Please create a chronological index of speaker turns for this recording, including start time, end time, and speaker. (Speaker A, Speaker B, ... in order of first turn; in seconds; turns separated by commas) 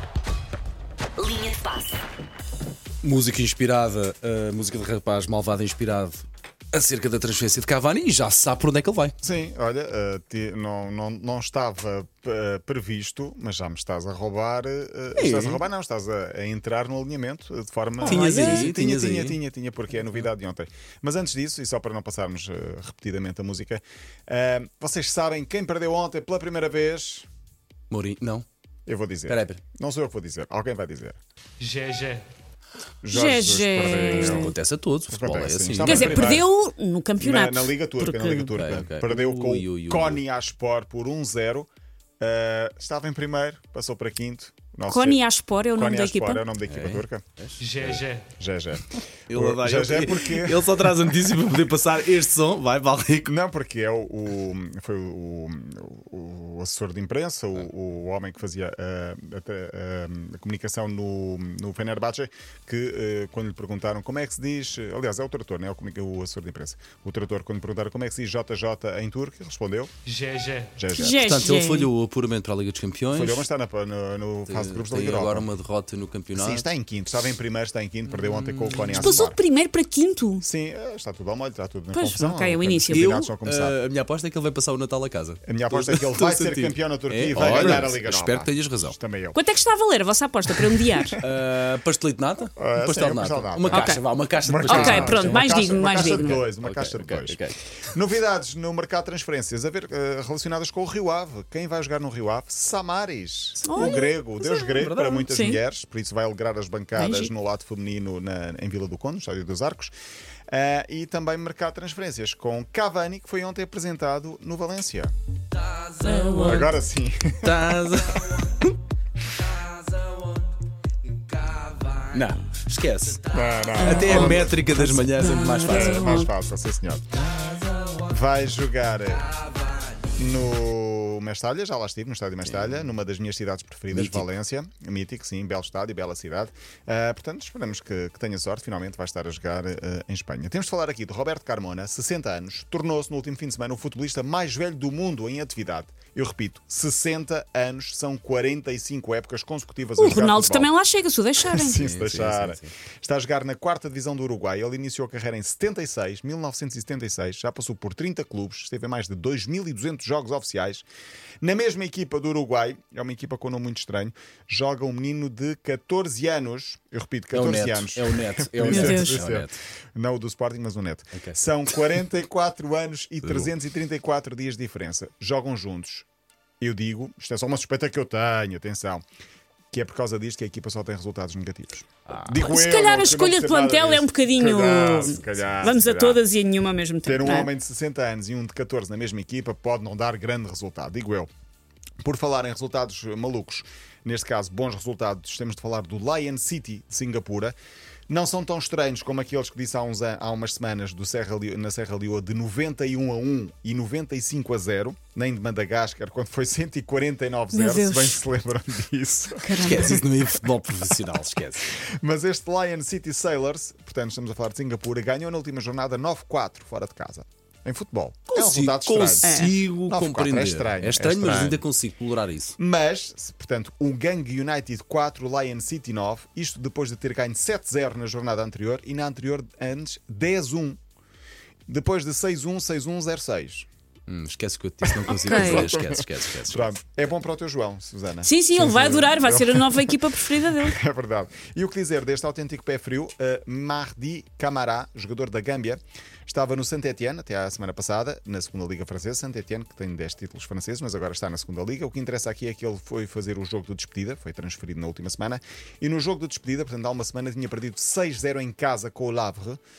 Speaker A: 3.0-9.1, Speaker B: 9.2-27.3, Speaker A: 15.1-15.6, Speaker A: 18.0-19.4, Speaker C: 18.1-18.7, Speaker A: 27.9-28.4, Speaker B: 28.9-31.2, Speaker A: 29.3-29.6, Speaker D: 31.6-32.3, Speaker B: 33.0-34.5, Speaker C: 33.1-34.5, Speaker A: 33.9-36.4, Speaker B: 35.1-36.5, Speaker C: 35.8-38.5, Speaker B: 37.2-41.7, Speaker A: 38.5-40.2, Speaker B: 42.2-45.2, Speaker C: 44.9-46.4, Speaker B: 45.8-47.2, Speaker A: 46.6-47.9, Speaker D: 47.6-48.3, Speaker B: 47.8-51.1, Speaker A: 49.3-53.3, Speaker B: 53.2-69.9, Speaker D: 70.0-70.8, Speaker B: 70.8-71.4, Speaker C: 70.9-71.9, Speaker A: 71.0-73.4, Speaker B: 73.1-75.5, Speaker A: 74.5-76.7, Speaker B: 76.3-79.4, Speaker A: 78.1-79.2, Speaker C: 78.9-80.4, Speaker B: 80.4-83.8, Speaker C: 81.9-83.1, Speaker A: 82.9-89.0, Speaker B: 85.4-89.4, Speaker C: 89.3-91.2, Speaker B: 90.8-91.2, Speaker A: 91.2-97.6, Speaker B: 92.6-97.4, Speaker C: 93.7-94.0, Speaker C: 94.7-96.4, Speaker B: 97.9-109.9, Speaker C: 103.6-105.6, Speaker A: 104.8-105.3, Speaker C: 107.0-107.3, Speaker B: 110.5-115.1, Speaker C: 116.0-116.6, Speaker B: 116.4-118.4, Speaker A: 117.4-118.7, Speaker A: 122.0-126.2, Speaker B: 123.3-124.7, Speaker C: 123.8-126.3, Speaker B: 125.6-127.0, Speaker B: 128.0-129.3, Speaker B: 130.1-150.7, Speaker A: 132.4-132.8, Speaker A: 133.9-134.2, Speaker C: 150.0-151.8, Speaker B: 151.4-160.9, Speaker A: 151.7-152.7, Speaker B: 161.4-176.1, Speaker A: 167.3-169.6, Speaker C: 168.6-169.2, Speaker A: 171.1-171.4, Speaker A: 173.2-173.5, Speaker B: 176.6-179.0, Speaker B: 179.7-186.2, Speaker A: 182.1-182.4, Speaker C: 182.4-187.5, Speaker B: 187.1-191.3, Speaker B: 192.0-197.6, Speaker B: 198.1-210.4, Speaker C: 207.5-208.2, Speaker C: 209.4-209.9, Speaker A: 209.6-211.8, Speaker B: 211.7-221.6, Speaker A: 218.3-222.6, Speaker C: 219.2-219.5, Speaker B: 222.6-230.8, Speaker B: 231.7-233.7, Speaker A: 234.1-236.7, Speaker B: 234.8-259.6, Speaker C: 235.1-235.7, Speaker C: 238.2-240.8